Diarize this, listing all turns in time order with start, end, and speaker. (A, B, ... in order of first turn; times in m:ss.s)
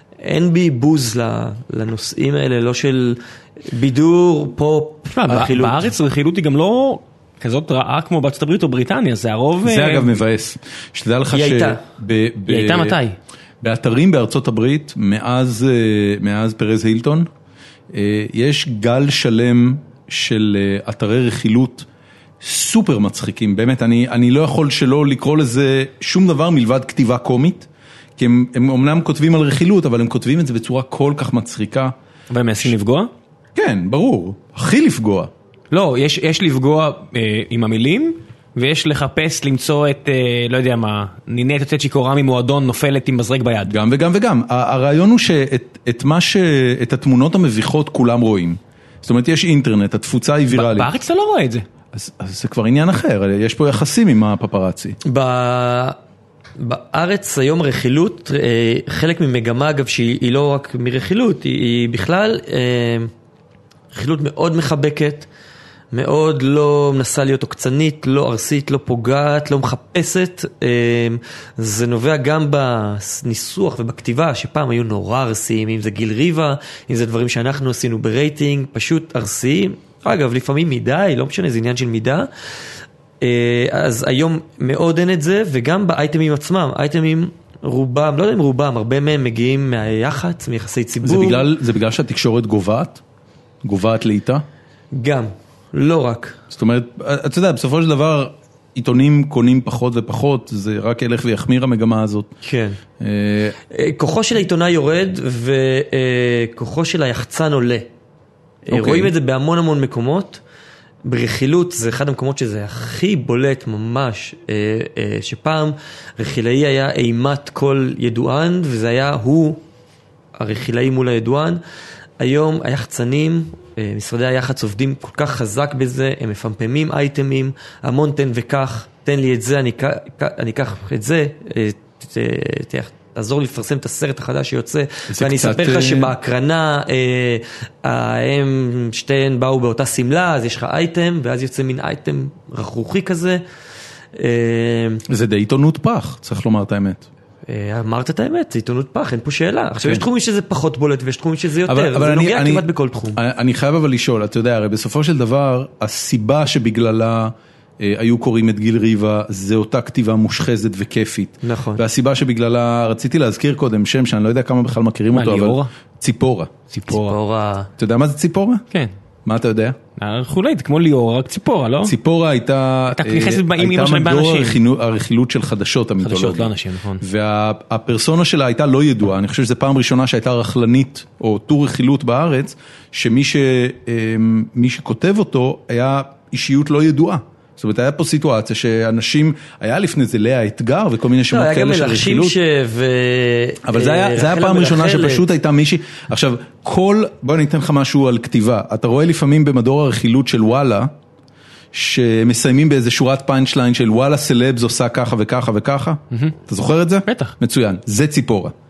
0:00.2-0:05.9 A
0:05.1-0:10.1 B
0:09.6-0:13.0 C
0:11.3-0:11.8 A
0:12.5-0:13.2 B
0:13.6-0:17.3 C
0:17.9-0:21.9 C
0:22.4-0:31.9 C
0:32.3-0:33.1 B
0:33.6-0:35.3 C
0:35.7-0:43.7 B
0:43.7-0:50.9 C
0:50.5-0:51.6 B
0:51.9-0:55.0 C
0:55.0-0:56.0 A
0:56.6-1:03.1 A
1:03.9-1:05.3 A
1:05.9-1:22.3 A
1:23.2-1:31.5 A
1:31.0-1:33.0 C
1:33.6-1:34.4 C
1:34.9-1:36.4 A
1:36.5-1:42.3 C
1:42.4-1:42.8 A
1:43.0-1:43.6 C
1:43.7-1:47.9 A
1:48.7-1:50.4 A
1:48.7-1:49.1 C
1:51.0-1:59.6 A
2:00.4-2:01.6 A
2:02.2-2:23.4 A
2:15.1-2:16.1 C
2:24.2-2:25.0 A
2:25.1-2:27.1 C
2:27.5-2:33.2 A
2:31.7-2:46.5 C
2:41.4-2:41.8 A
2:45.1-2:45.7 B
2:46.7-2:47.2 B
2:46.9-2:47.7 A
2:47.8-2:48.6 C
2:49.2-2:49.8 C
2:50.0-2:52.0 B
2:51.8-3:12.4 C
2:52.9-2:54.6 B
2:56.0-2:57.0 B
3:11.3-3:15.2 A
3:13.6-3:20.9 C
3:21.7-3:28.5 C
3:27.1-3:27.4 B